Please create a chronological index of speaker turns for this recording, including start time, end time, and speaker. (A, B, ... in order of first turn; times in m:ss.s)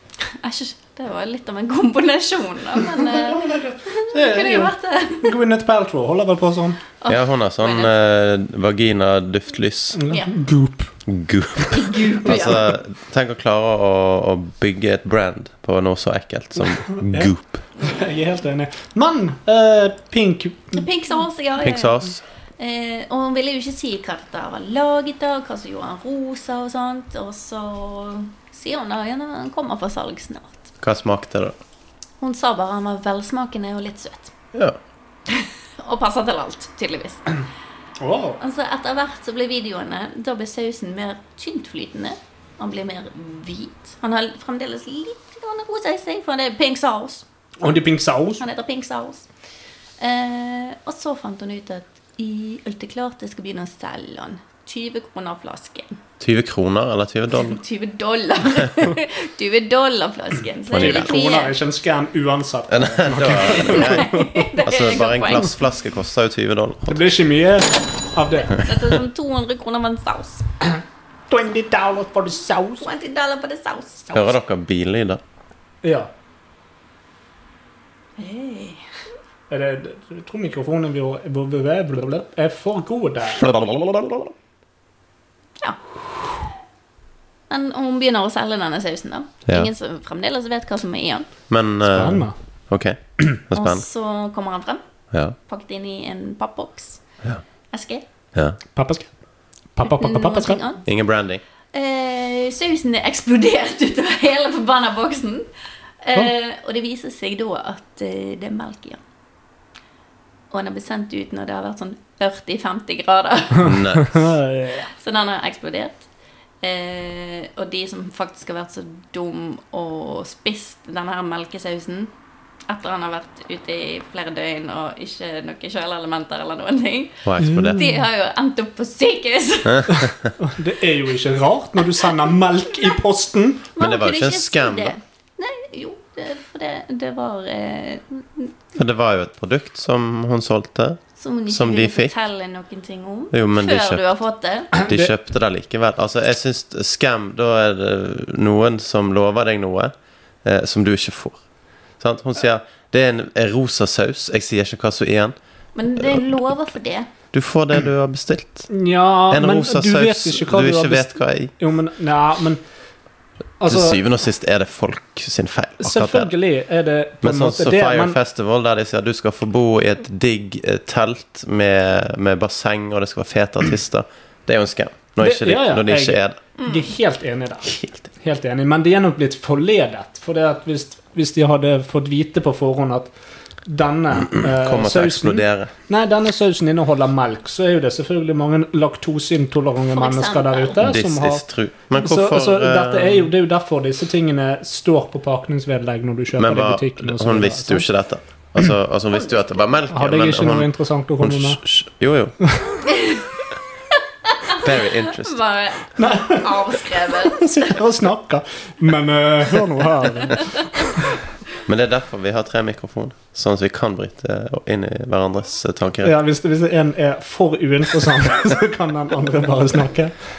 0:00.2-0:05.4 A
0:03.0-0:06.8 B
0:07.0-0:07.9 A
0:07.1-0:10.0 C
0:09.9-0:10.9 B
0:11.1-0:17.6 C
0:11.7-0:12.7 A
0:16.9-0:20.8 B
0:20.7-0:30.7 A
0:21.6-0:22.2 C
0:30.8-0:31.5 C
0:32.2-0:34.3 A
0:35.3-0:37.4 A
0:38.0-0:38.4 B
0:38.4-0:47.2 A
0:47.6-0:48.4 B
0:48.4-0:49.3 A
0:50.0-0:56.0 A
0:56.2-0:57.6 C
0:57.3-1:01.6 A
1:00.7-1:01.1 C
1:00.8-1:04.5 B
1:02.7-1:07.0 C
1:03.4-1:05.6 A
1:06.9-1:08.7 B
1:08.4-1:10.4 A
1:11.3-1:12.9 B
1:12.8-1:14.3 A
1:14.1-1:15.2 C
1:15.8-1:16.1 B
1:18.2-1:18.8 A
1:19.5-1:23.4 B
1:23.4-1:24.3 C
1:27.5-1:31.3 A
1:31.5-1:33.8 C
1:31.8-1:32.3 B
1:33.5-1:34.8 A
1:35.5-1:37.0 A
1:37.7-1:38.0 A
1:38.7-1:39.1 B
1:39.7-1:40.6 B
1:39.8-1:40.8 A
1:40.8-1:41.4 C
1:41.7-1:45.5 A
1:46.0-1:49.0 A
1:50.5-1:53.7 A
1:53.6-1:54.2 C
1:53.7-1:54.9 B
1:55.0-1:56.0 A
1:56.6-2:02.1 A
2:02.7-2:10.1 A
2:07.2-2:07.8 C
2:07.4-2:07.9 B
2:09.6-2:10.3 C
2:10.4-2:13.7 B
2:13.8-2:18.5 A
2:13.8-2:14.9 C
2:18.8-2:22.1 C
2:21.2-2:24.7 A
2:23.3-2:24.0 C
2:24.7-2:29.9 C
2:24.8-2:25.1 B
2:30.4-2:31.4 C
2:32.0-2:35.3 C
2:35.7-2:37.1 A
2:37.3-2:38.7 C
2:38.7-2:42.6 B
2:39.3-2:41.5 C
2:43.6-2:44.0 B
2:43.7-2:46.3 C
2:45.8-2:48.2 B
2:47.2-2:56.4 C
2:55.2-3:03.1 B
2:56.6-2:56.9 A
2:57.6-2:58.0 C
3:03.6-3:17.8 B
3:04.3-3:05.7 C
3:09.9-3:10.8 A
3:10.8-3:13.3 C
3:16.4-3:22.4 C
3:19.9-3:21.6 B
3:22.8-3:23.3 A
3:23.9-3:27.6 A
3:24.5-3:25.4 C
3:26.0-3:31.2 B
3:31.6-3:36.2 C
3:36.0-3:40.2 B